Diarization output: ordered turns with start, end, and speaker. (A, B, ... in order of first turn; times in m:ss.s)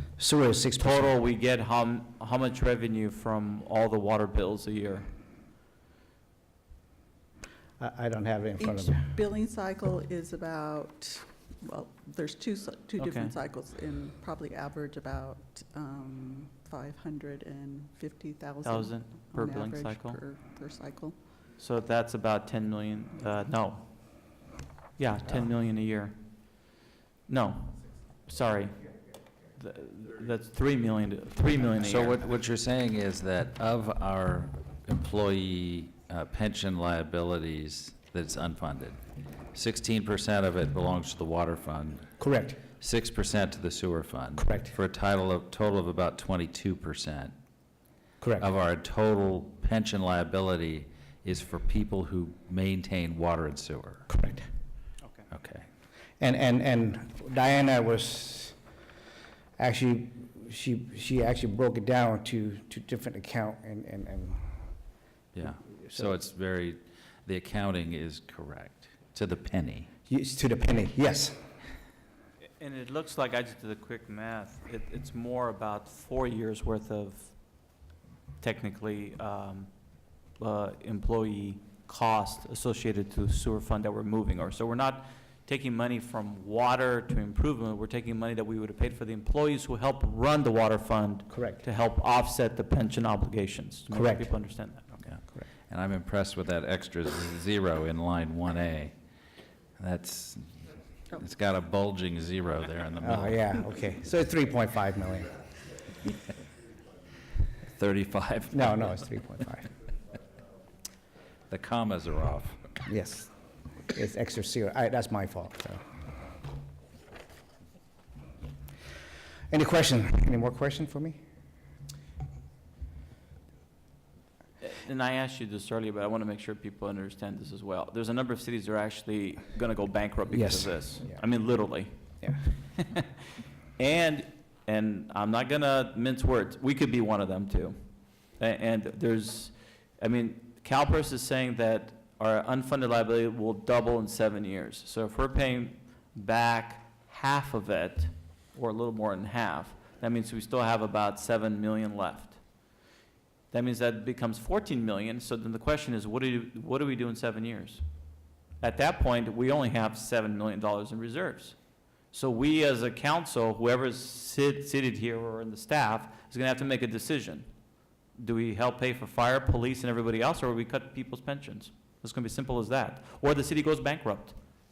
0:00.2-0:01.1 A
0:00.8-0:05.1 B
0:07.8-0:09.1 A
0:08.6-0:21.1 C
0:13.0-0:13.3 B
0:18.6-0:20.2 B
0:21.6-0:24.4 B
0:25.0-0:26.2 B
0:27.3-0:28.9 B
0:29.6-0:32.2 B
0:31.8-0:39.0 D
0:39.5-0:42.0 D
0:42.2-0:42.6 A
0:42.8-0:47.3 D
0:44.4-0:44.7 A
0:48.2-0:48.4 A
0:48.4-0:54.1 D
0:54.1-0:54.4 A
0:55.3-0:55.6 D
0:56.2-0:58.6 A
0:59.6-1:04.4 A
1:05.3-1:09.9 D
1:05.6-1:06.1 A
1:10.1-1:11.4 A
1:12.4-1:17.4 B
1:18.4-1:19.7 B
1:20.4-1:35.0 B
1:31.3-1:31.6 A
1:33.9-1:34.3 A
1:35.0-1:38.9 D
1:39.8-1:40.5 D
1:41.2-1:43.4 D
1:43.0-1:45.4 A
1:47.6-1:48.9 D
1:48.5-1:49.7 A
1:51.5-1:52.7 D
1:52.9-1:53.3 A
1:53.9-1:55.8 A
1:59.5-2:01.2 A
2:04.6-2:13.0 B
2:10.3-2:11.2 A
2:13.8-2:17.8 B
2:18.4-2:32.4 B
2:33.5-2:37.8 B
2:38.6-2:41.6 B
2:42.1-2:47.5 B
2:48.2-2:54.4 B